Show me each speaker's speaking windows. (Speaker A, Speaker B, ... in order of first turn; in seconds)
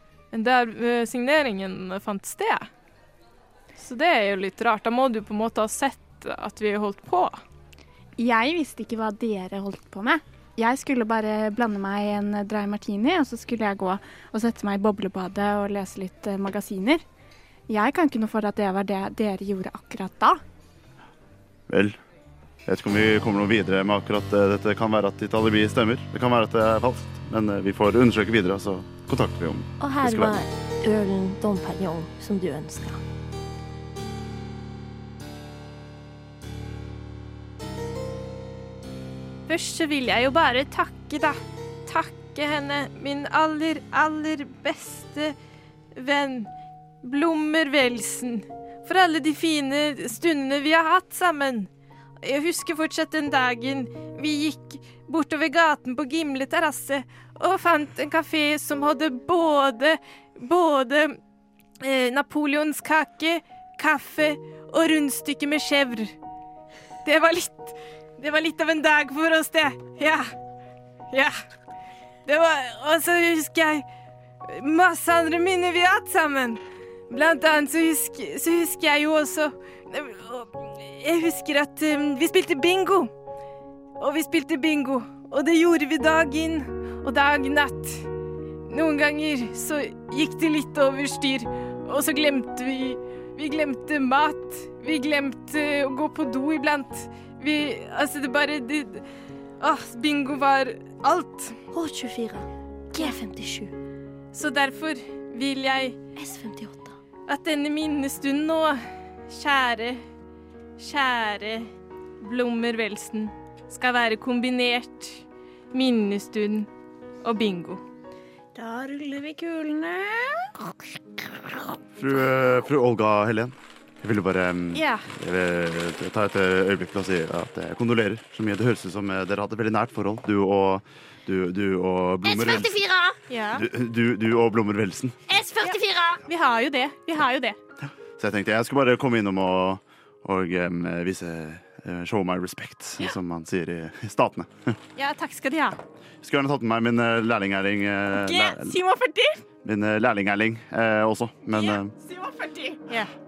Speaker A: 0.3-2.7, 3.8-7.4, 39.5-45.3, 45.9-46.5, 47.0-51.7, 52.2-61.2, 61.8-66.1, 67.0-70.3, 72.2-73.8, 74.4-83.1, 84.0-88.0, 88.7-99.0, 99.6-101.5, 104.3-106.0, 107.3-110.0, 110.8-111.7, 112.2-116.7, 117.2-117.8, 124.7-125.1, 133.3-133.7, 135.6-137.6, 144.9-145.8, 148.1-149.4, 151.5-153.1
Speaker B: 8.2-17.0, 17.7-20.4, 118.6-120.0
Speaker C: 21.7-22.0, 22.6-30.4, 122.0-132.8, 133.5-135.2, 138.2-144.8, 146.2-148.8, 149.6-151.9
Speaker D: 29.8-33.0, 101.7-103.7, 106.2-107.0, 132.2-133.2, 135.3-136.2